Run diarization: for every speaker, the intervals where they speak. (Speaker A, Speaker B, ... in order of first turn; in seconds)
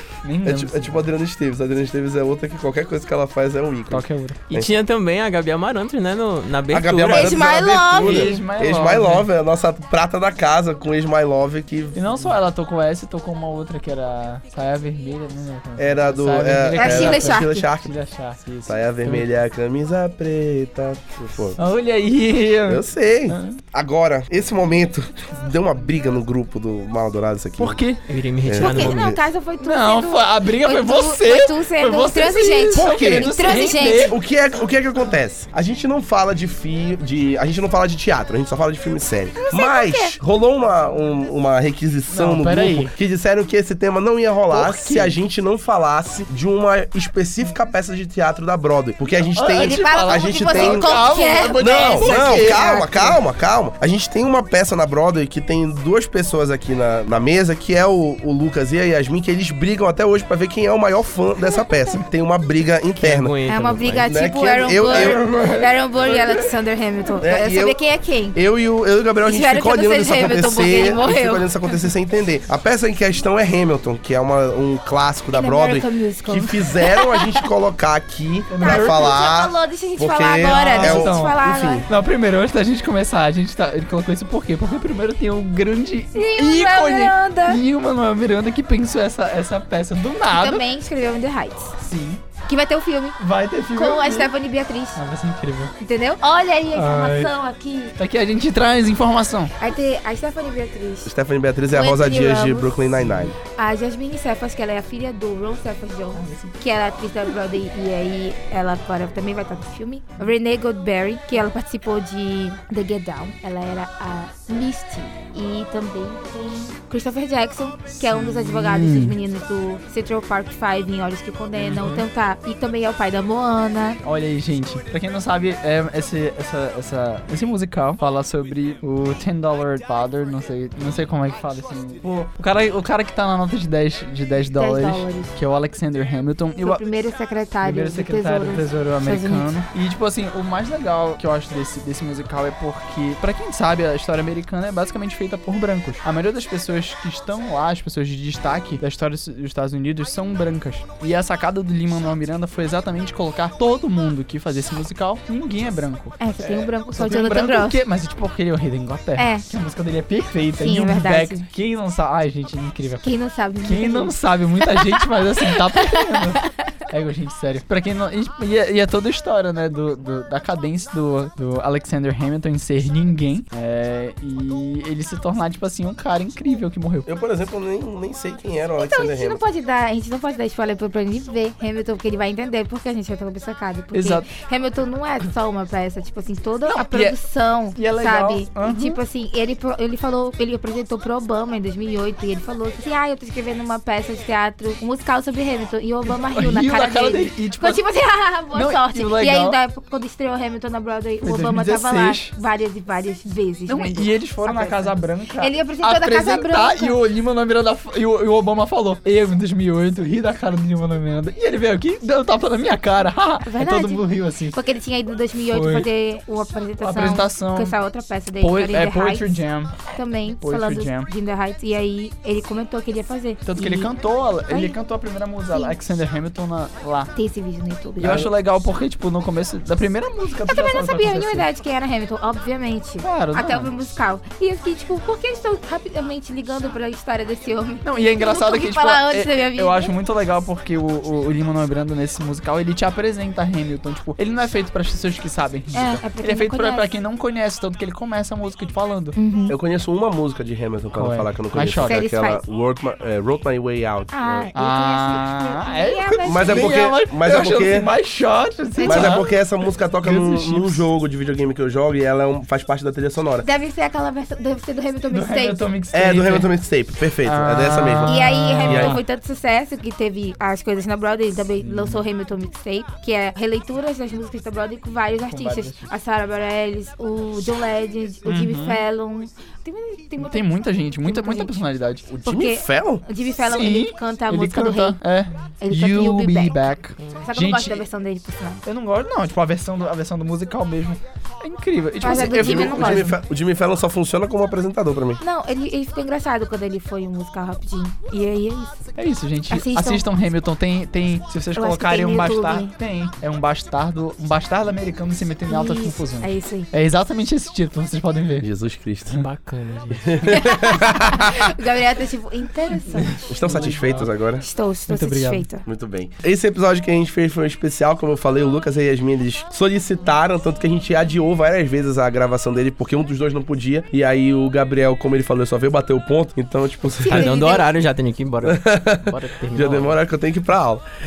Speaker A: 0.2-1.0, 3.9-4.4, 7.9-9.3, 11.9-19.3, 21.6-23.6, 27.6-28.0, 29.6-34.2, 42.1-42.9, 44.5-45.2, 49.3-52.8, 64.8-66.5, 78.5-79.1, 80.4-90.6, 91.8-92.2, 93.2-94.3, 94.9-95.7, 96.7-97.3, 98.0-99.5, 102.9-103.3, 106.1-106.6, 118.0-119.2, 121.6-121.9, 124.0-136.8, 137.6-163.1, 163.6-177.1, 183.9-184.3, 186.6-187.2, 187.7-189.0, 196.1-197.8, 198.5-199.6, 201.2-202.3, 203.7-214.6, 215.5-215.9, 216.8-217.7, 218.4-219.8, 220.4-221.1, 223.4-227.1, 228.0-231.5, 233.0-233.7, 237.8-249.2, 250.9-252.0, 254.5-259.3, 260.0-260.9, 265.1-266.5, 267.2-269.0, 271.6-272.0, 275.3-275.8, 278.2-278.8, 280.2-282.4, 283.4-287.8, 288.6-293.1, 298.9-308.5, 312.9-314.1, 314.9-315.4
Speaker B: 0.4-4.7, 6.7-12.3, 15.8-17.9, 18.6-21.6, 22.7-27.8, 28.4-29.2, 32.7-51.0, 51.5-63.3, 64.0-65.2, 67.2-67.8, 68.3-81.8, 101.0-103.3, 177.1-179.4, 249.5-254.5, 256.2-257.9, 258.8-263.4, 265.9-269.0, 282.2-283.0, 292.0-295.2, 308.4-309.2, 310.0-311.4, 313.2-314.4, 315.6-327.4, 328.4-330.8
Speaker C: 4.5-7.6, 28.1-29.1, 63.0-64.1, 121.6-122.0, 309.1-310.3, 327.1-330.0
Speaker D: 7.1-8.4, 16.8-17.5, 28.6-34.1, 39.4-40.2, 49.6-53.2, 61.5-62.0, 63.5-68.4, 69.2-71.5, 75.3-77.4, 78.6-81.9, 86.1-87.6, 90.3-91.7, 92.5-93.2, 93.7-95.0, 95.8-97.9, 99.6-101.1, 101.7-102.8, 103.5-124.0, 134.5-135.3, 136.6-139.5, 156.2-157.8, 159.2-159.4, 160.6-161.5, 163.0-164.1, 164.7-166.5, 178.8-207.0, 213.4-219.4, 219.9-223.9, 224.5-224.8, 227.1-228.3, 230.5-239.9, 245.7-246.9, 249.2-249.6, 251.8-252.4, 254.1-256.7, 258.8-259.3, 263.4-265.7, 268.1-280.5, 281.0-281.6, 282.2-285.0, 285.6-288.6, 292.0-293.1, 295.2-298.8, 299.5-300.0, 301.5-302.7, 305.5-306.7, 310.3-313.7, 314.4-315.6, 327.0-327.6